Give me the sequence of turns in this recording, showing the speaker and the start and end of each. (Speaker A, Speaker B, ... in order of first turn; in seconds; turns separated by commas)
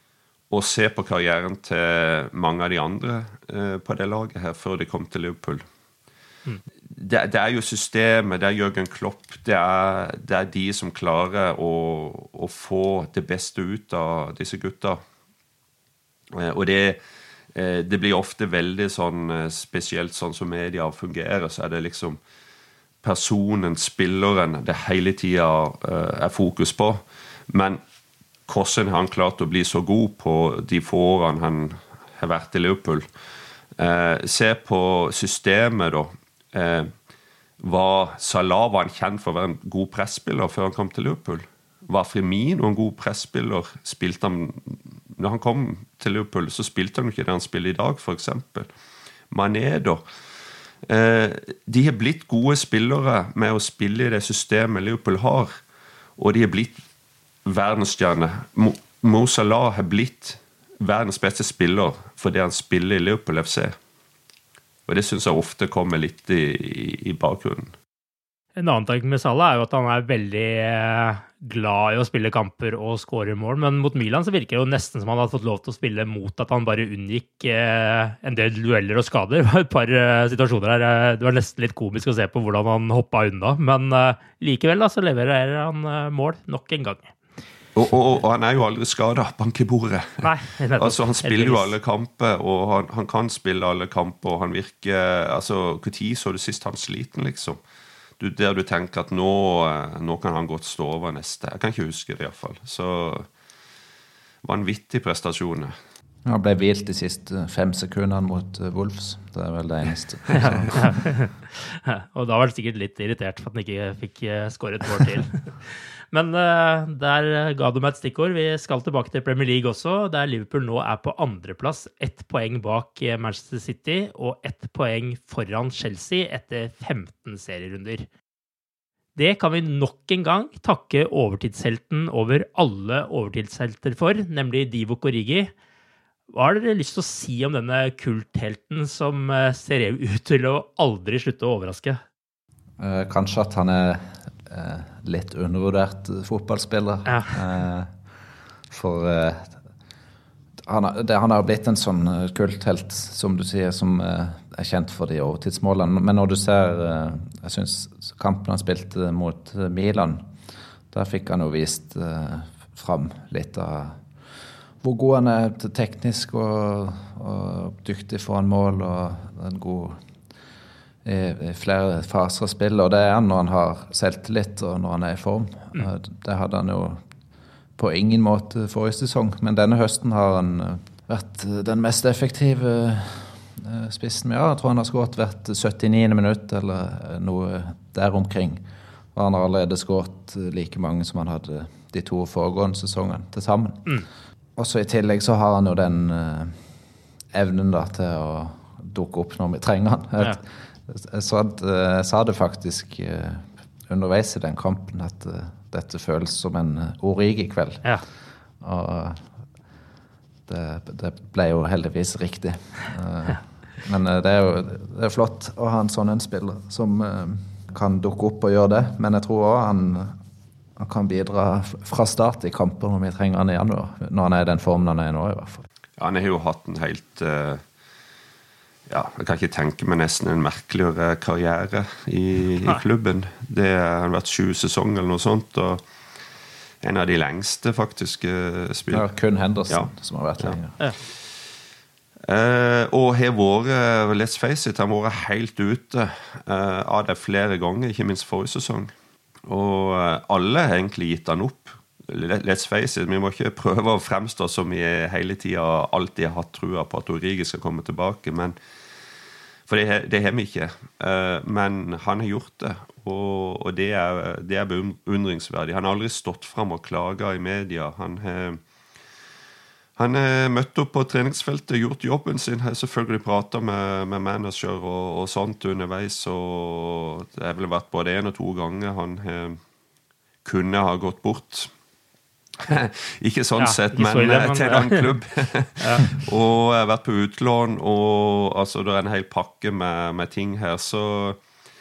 Speaker A: 0.5-5.6, Speaker A: 6.9-15.0, Speaker A: 16.3-17.0, Speaker A: 17.5-22.2, Speaker A: 23.0-27.8, Speaker A: 28.5-33.1, Speaker A: 33.8-36.9, Speaker A: 37.6-48.7, Speaker A: 49.3-50.0, Speaker A: 50.9-55.5, Speaker A: 56.2-56.8, Speaker A: 57.5-63.7, Speaker A: 64.9-67.7, Speaker B: 68.5-87.1, Speaker A: 87.7-90.2, Speaker B: 90.2-91.7, Speaker A: 90.8-97.6, Speaker A: 98.2-103.3, Speaker A: 104.4-105.7, Speaker C: 106.2-110.8, Speaker B: 110.4-128.1, Speaker B: 129.2-135.5, Speaker B: 136.3-142.0, Speaker C: 142.8-147.9, Speaker B: 147.1-147.3, Speaker C: 148.7-149.6, Speaker C: 150.6-160.3, Speaker C: 160.9-164.0, Speaker C: 164.8-170.0, Speaker C: 171.0-177.0, Speaker C: 177.8-193.8, Speaker C: 194.6-196.6, Speaker C: 197.3-207.8, Speaker C: 208.6-209.2, Speaker C: 210.5-220.2, Speaker C: 220.8-225.6, Speaker A: 226.0-227.6, Speaker A: 228.9-235.8, Speaker A: 236.8-239.1, Speaker C: 238.9-240.8, Speaker A: 239.7-240.6, Speaker A: 242.3-248.9, Speaker A: 249.4-258.6, Speaker A: 259.7-268.6, Speaker A: 270.0-279.6, Speaker A: 280.4-281.7, Speaker A: 282.7-291.4, Speaker B: 283.6-285.1, Speaker B: 285.8-286.1